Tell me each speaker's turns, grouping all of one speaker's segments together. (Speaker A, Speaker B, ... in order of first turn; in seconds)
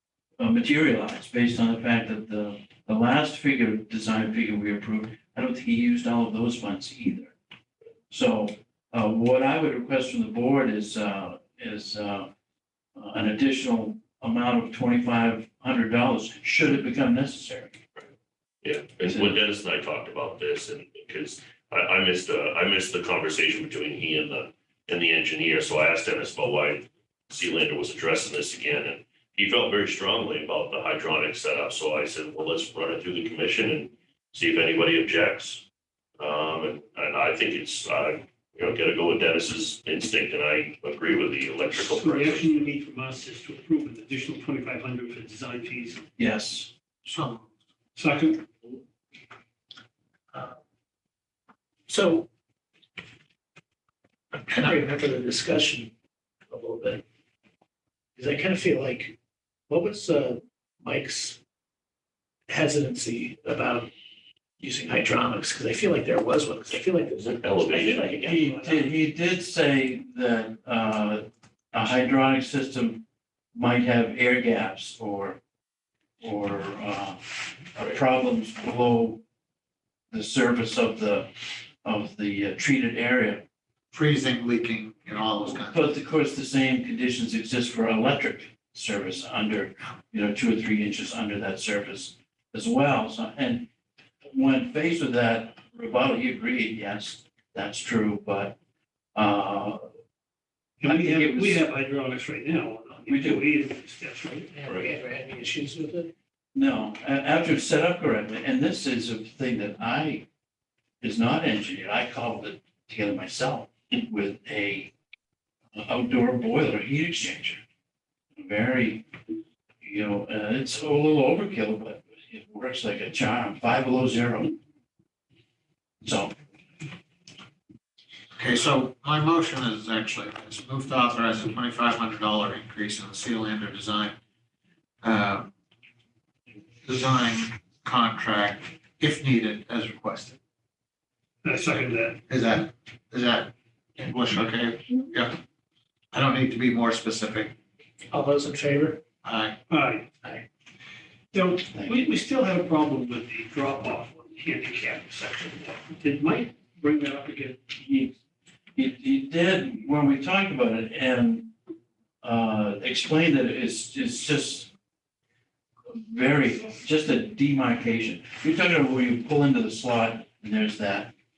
Speaker A: 0.4-7.3, 8.1-12.3, 12.9-17.8, 19.0-19.4, 46.2-46.7, 68.2-75.4, 76.2-79.2, 80.1-81.3, 81.8-83.4, 85.5-93.7, 94.2-98.6, 99.1-99.9, 100.8-101.6, 103.1-103.4, 106.5-110.2, 111.0-114.9, 115.7-117.6, 118.4-119.1, 119.8-124.5, 126.0-126.3, 151.7-152.0, 157.8-158.1, 158.8-161.5, 162.2-164.7, 165.9-171.1
Speaker B: 18.6-35.6, 36.2-42.7, 67.2-68.1
Speaker C: 41.7-46.0, 48.0-48.5, 100.8-104.6, 141.4-142.2, 149.7-150.1, 151.3-157.6
Speaker D: 47.0-47.5, 83.9-85.9, 128.3-134.2, 135.0-135.5, 136.8-140.4, 142.3-145.4, 146.1-147.5, 149.2-149.6
Speaker E: 50.3-50.6, 51.9-52.3, 54.4-55.9, 56.5-57.0, 58.2-59.1, 59.7-61.4, 62.5-63.9, 64.6-68.9, 104.5-106.1, 148.1-149.0